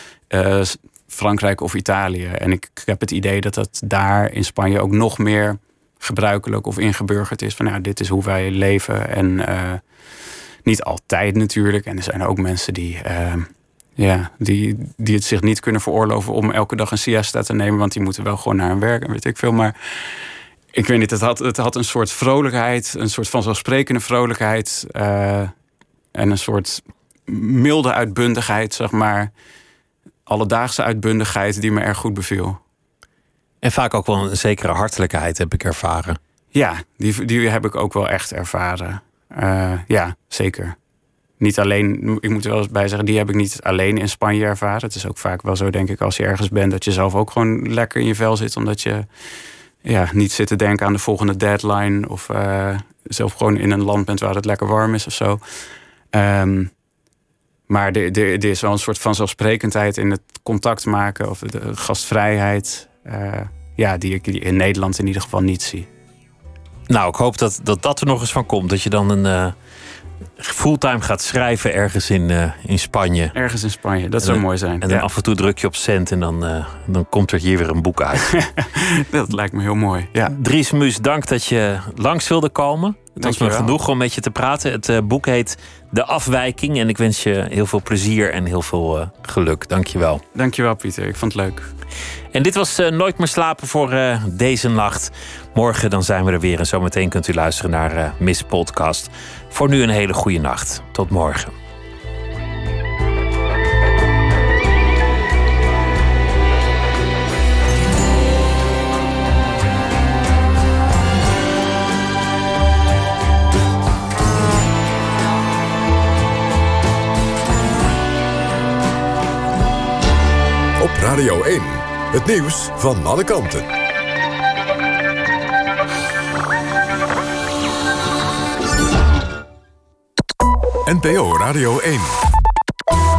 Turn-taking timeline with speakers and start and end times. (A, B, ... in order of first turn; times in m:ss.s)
0:00.3-0:09.8 A
0:10.6-0:25.5 A
0:26.2-0:29.3 A
0:30.3-0:32.6 A
0:33.6-0:36.2 B
0:36.5-0:40.8 A
0:41.4-0:49.1 A
0:49.8-0:55.4 A
0:56.1-0:56.7 A
0:57.7-1:05.9 A
1:06.9-1:09.6 B
1:10.4-1:13.3 B
1:13.3-1:15.1 A
1:14.2-1:18.5 B
1:18.3-1:20.4 A
1:20.3-1:30.2 B
1:23.2-1:23.8 A
1:30.4-1:31.7 A
1:32.3-1:41.6 B
2:00.8-2:03.7 C
2:10.9-2:12.2 C